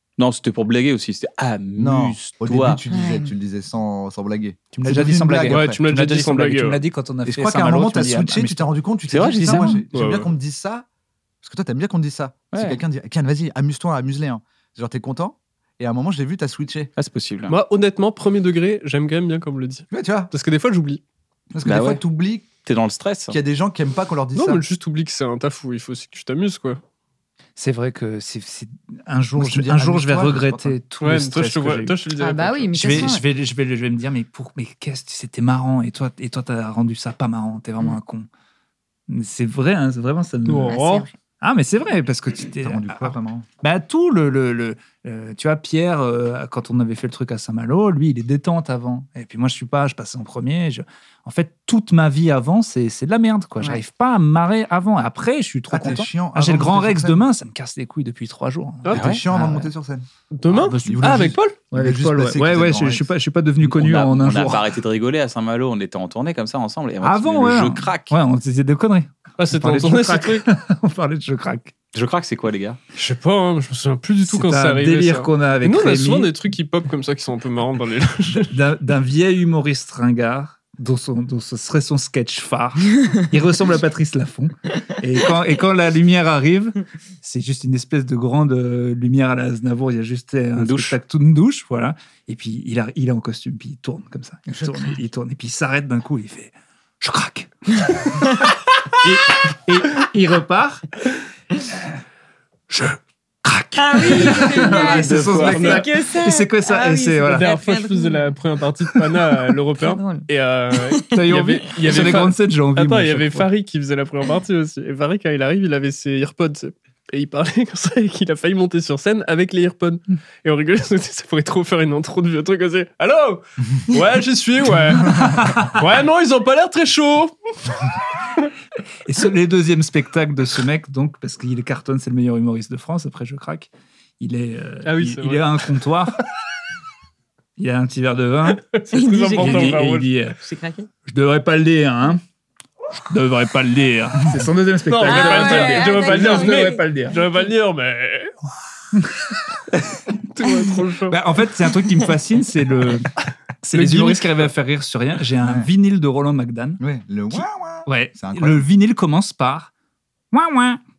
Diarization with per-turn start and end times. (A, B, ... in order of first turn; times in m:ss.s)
0:00.2-0:02.8 A
0:01.8-0:05.8 B
0:02.9-0:03.3 C
0:04.7-0:08.7 D
0:05.5-0:06.8 E
0:07.2-0:10.8 B
0:09.1-0:09.8 A
0:09.5-0:09.8 D
0:09.9-0:10.3 E
0:11.4-0:16.9 B
0:12.5-0:12.8 A
0:17.0-0:17.6 A
0:17.5-0:21.0 E
0:19.9-0:20.3 B
0:21.5-0:22.5 B
0:21.6-0:22.0 A
0:22.6-0:23.4 A
0:23.3-0:24.6 B
0:24.3-0:26.8 E
0:27.6-0:32.0 D
0:29.4-0:30.8 B
0:31.0-0:33.2 E
0:32.2-0:33.2 C
0:32.7-0:38.3 D
0:39.1-0:40.8 D
0:40.4-0:41.1 E
0:40.7-0:41.1 C
0:41.4-0:59.7 D
0:42.6-0:43.4 B
0:55.7-0:57.3 B
0:58.8-0:59.2 E
0:58.9-1:00.0 B
0:58.9-0:59.2 A
1:00.3-1:01.6 E
1:00.5-1:04.7 D
1:00.8-1:03.1 B
1:03.7-1:08.1 A
1:07.0-1:11.7 D
1:09.4-1:10.4 E
1:11.9-1:12.8 A
1:12.9-1:18.5 E
1:14.3-1:16.3 D
1:18.5-1:40.9 D
1:30.6-1:31.0 A
1:42.7-1:47.7 D
1:43.8-1:48.3 C
1:44.0-1:45.9 E
1:45.0-1:45.8 A
1:47.3-2:07.8 E
1:49.8-1:50.3 C
1:50.9-1:51.1 C
1:51.1-1:53.5 D
2:05.0-2:05.7 D
2:09.0-2:16.2 D
2:14.8-2:15.6 E
2:17.6-2:18.6 D
2:18.7-2:20.1 E
2:18.9-2:20.9 C
2:19.4-2:20.4 D
2:21.1-2:22.2 D
2:23.0-2:27.2 D
2:24.8-2:28.3 E
2:25.0-2:27.5 C
2:29.0-2:29.2 D
2:30.2-2:31.2 E
2:31.1-2:33.1 D
2:33.6-2:36.8 D
2:33.7-2:34.5 E
2:35.4-2:35.7 B
2:36.8-2:38.7 B
2:37.3-2:39.7 D
2:40.3-2:40.8 D